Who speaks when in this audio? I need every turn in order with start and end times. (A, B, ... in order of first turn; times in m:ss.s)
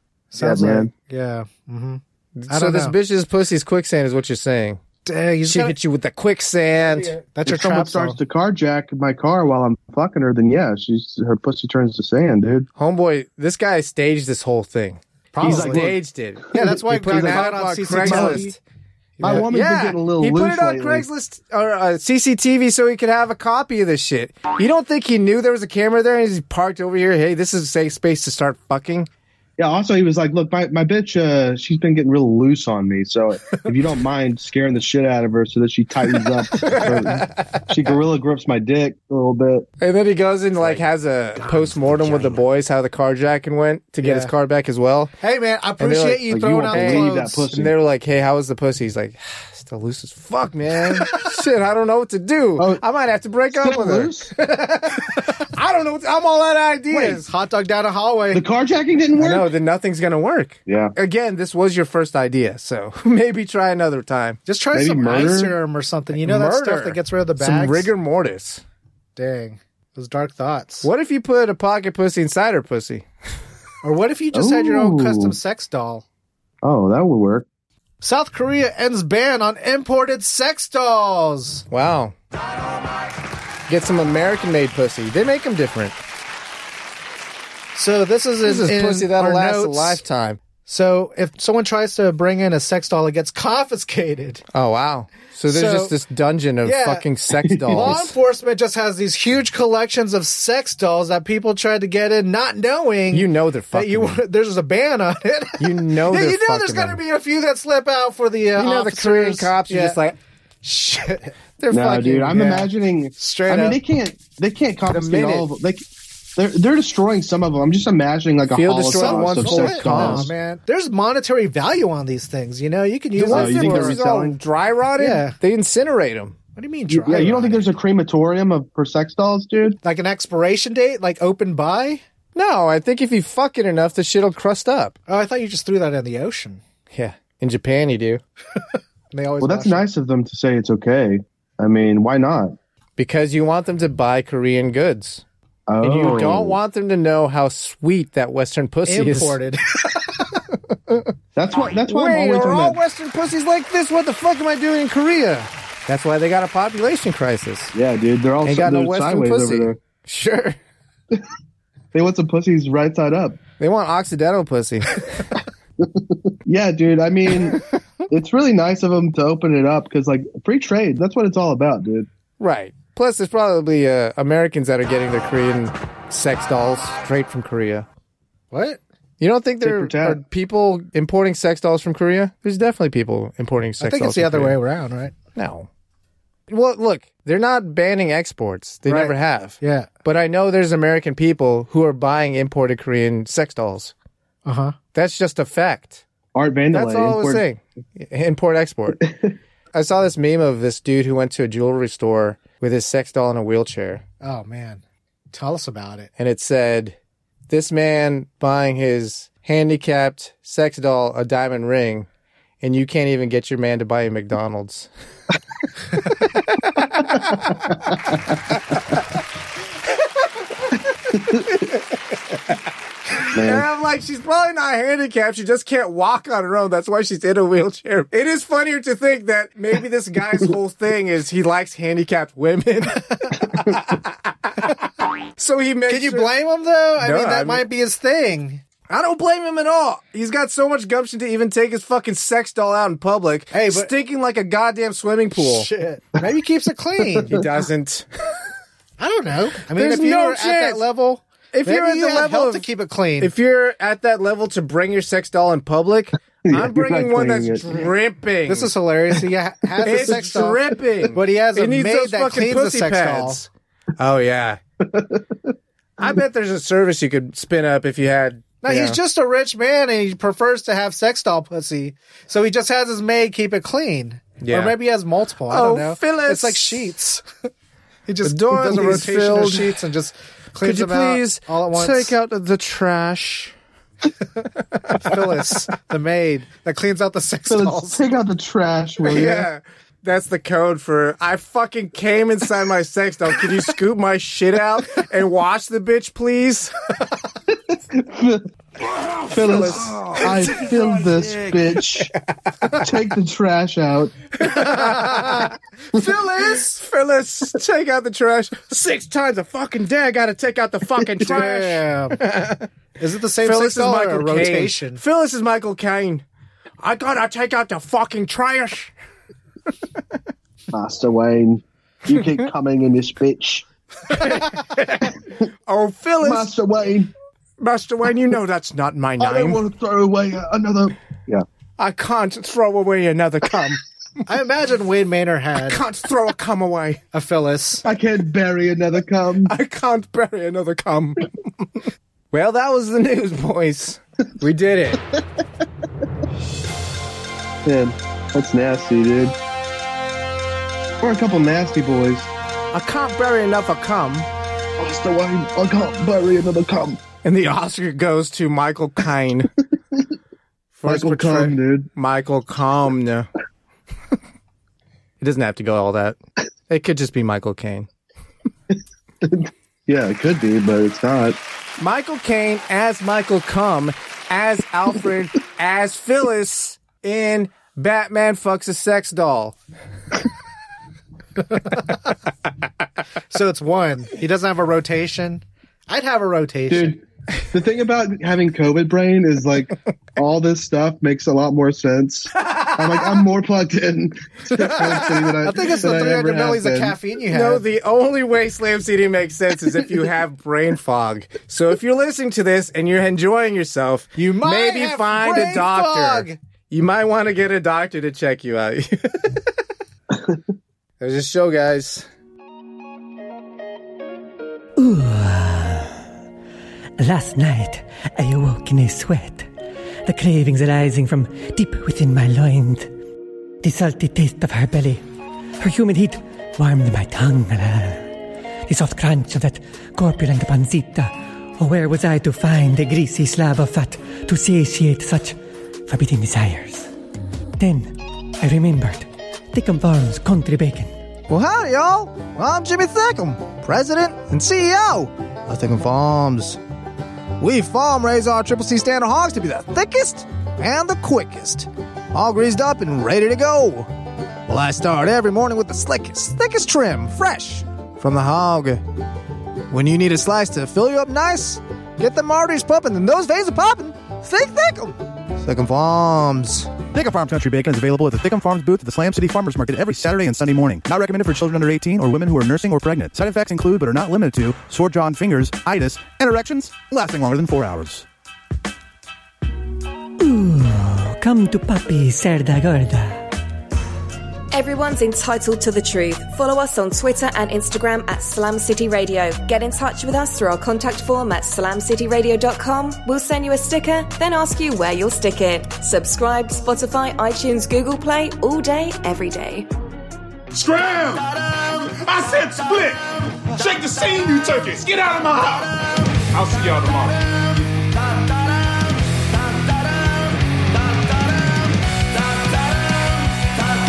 0:00.3-0:03.0 A
0:00.4-0:00.9 B
0:02.4-0:04.8 C
0:05.0-0:05.8 A
0:05.4-0:07.2 C
0:06.9-0:08.2 A
0:07.5-0:12.7 B
0:12.8-0:18.6 C
0:15.3-0:15.9 A
0:15.4-0:16.0 B
0:16.5-0:18.5 B
0:16.5-0:18.6 A
0:19.2-0:19.5 A
0:19.2-0:21.1 B
0:19.2-0:29.1 C
0:29.6-0:39.7 B
0:36.5-0:37.6 C
0:39.8-0:45.1 C
0:44.0-0:44.3 A
0:45.2-0:47.5 A
0:45.8-0:54.2 C
0:46.3-0:47.7 B
0:52.6-0:52.8 B
0:53.5-0:54.3 B
0:54.6-0:54.9 A
0:55.2-0:57.2 C
0:56.9-0:58.4 A
0:58.3-0:59.5 B
0:59.2-1:04.4 C
1:00.7-1:00.9 B
1:04.5-1:07.9 A
1:04.7-1:05.6 B
1:06.1-1:08.6 C
1:09.2-1:10.9 A
1:10.8-1:13.1 C
1:13.8-1:16.0 A
1:14.3-1:15.4 B
1:16.6-1:17.5 B
1:18.0-1:21.6 A
1:21.7-1:22.2 C
1:23.7-1:26.0 C
1:27.8-1:30.0 A
1:28.4-1:30.4 C
1:30.7-1:34.4 A
1:34.5-1:38.1 C
1:35.5-1:36.0 A
1:36.6-1:37.0 A
1:37.4-1:38.0 B
1:37.7-1:50.0 A
1:43.1-1:44.2 C
1:45.6-1:47.0 C
1:48.6-1:50.2 C
1:50.6-1:51.3 A
1:51.6-1:52.7 C
1:51.7-1:55.8 B
1:52.4-1:52.6 A
1:53.2-1:53.8 A
1:54.9-1:55.5 C
1:56.4-2:00.3 B
1:58.5-2:00.3 C
1:59.0-2:04.0 A
2:03.2-2:04.4 B
2:03.2-2:06.4 C
2:05.0-2:05.4 A
2:06.6-2:07.7 A
2:06.9-2:09.8 B
2:09.8-2:12.0 A
2:12.4-2:15.0 C
2:15.1-2:16.6 A
2:16.9-2:18.2 C
2:19.1-2:19.9 A
2:19.4-2:22.6 B
2:23.0-2:25.2 C
2:25.7-2:26.6 B
2:25.8-2:29.4 C
2:28.9-2:29.8 A
2:30.7-2:31.1 C
2:31.4-2:32.8 B
2:31.9-2:37.7 C
2:37.7-2:39.8 B
2:38.4-2:40.6 C
2:41.9-2:43.4 B
2:43.6-2:45.3 C
2:45.8-2:52.1 B
2:52.4-2:57.9 C
2:58.5-2:58.8 A
2:59.2-3:04.6 C
2:59.6-3:00.2 B
3:03.8-3:05.2 A
3:05.4-3:05.7 C
3:06.5-3:13.9 C
3:08.9-3:09.9 A
3:14.5-3:14.8 A
3:14.9-3:16.0 C
3:16.4-3:17.4 B
3:16.7-3:19.0 C
3:19.0-3:19.3 B
3:19.7-3:24.0 C
3:24.2-3:26.1 A
3:26.2-3:27.0 C
3:27.5-3:32.1 C
3:32.6-3:34.9 C
3:36.6-3:37.7 C
3:40.2-3:56.3 C
3:43.3-3:43.6 B
3:55.9-3:58.6 A
3:57.0-3:57.7 C
3:58.9-4:05.7 C
4:03.5-4:03.9 A
4:05.4-4:07.4 A
4:07.3-4:08.1 C
4:09.0-4:13.3 A
4:09.7-4:10.8 C
4:11.5-4:12.7 C
4:13.2-4:18.7 C
4:16.4-4:17.9 B
4:18.5-4:23.4 A
4:19.8-4:24.6 C
4:24.9-4:25.2 B
4:26.0-4:29.0 C
4:28.6-4:37.3 A
4:34.4-4:34.8 C
4:35.5-4:36.9 C
4:38.1-4:42.2 A
4:38.2-4:39.8 C
4:40.6-4:43.5 C
4:44.9-4:48.0 A
4:47.5-4:49.5 B
4:49.0-4:56.7 C
4:57.5-4:58.5 B
4:58.9-5:02.8 C
4:59.3-5:02.1 B
5:02.8-5:04.2 B
5:04.4-5:05.6 C
5:04.4-5:06.8 A
5:06.5-5:12.7 C
5:11.2-5:12.3 A
5:13.0-5:15.0 A
5:13.4-5:16.2 C
5:16.8-5:18.9 C
5:20.7-5:23.6 B
5:24.1-5:26.5 C
5:26.2-5:27.1 B
5:27.6-5:29.6 C
5:29.2-5:31.4 B
5:31.8-5:33.8 C
5:34.3-5:35.8 A
5:35.6-5:37.0 C
5:37.1-5:37.8 A
5:37.8-5:39.6 B
5:39.5-5:45.0 C
5:47.6-5:49.4 B
5:51.0-5:52.3 B
5:52.7-5:54.3 C
5:54.8-5:57.0 B
5:57.2-5:59.5 C
6:00.8-6:03.3 C
6:00.9-6:01.9 B
6:05.2-6:06.2 C
6:06.7-6:07.9 C
6:08.7-6:11.4 B
6:11.8-6:19.6 C
6:23.3-6:27.0 A
6:26.7-6:37.0 B
6:32.4-6:33.1 C
6:34.8-6:35.3 C
6:35.4-6:37.6 A
6:37.3-6:49.4 C
6:44.2-6:46.4 A
6:51.0-6:52.1 C
6:54.8-6:56.0 D
6:57.0-6:59.5 D
7:00.0-7:02.9 D
7:03.6-7:05.0 D
7:05.6-7:08.1 D
7:08.7-7:16.9 D
7:17.6-7:20.9 D
7:21.3-7:26.6 C
7:27.4-7:33.9 C
7:34.5-7:38.8 C
7:39.7-7:46.8 C
7:46.9-7:58.0 E
8:00.2-8:03.4 D
8:04.5-8:19.7 F
8:20.5-8:25.8 G
8:26.3-8:27.4 G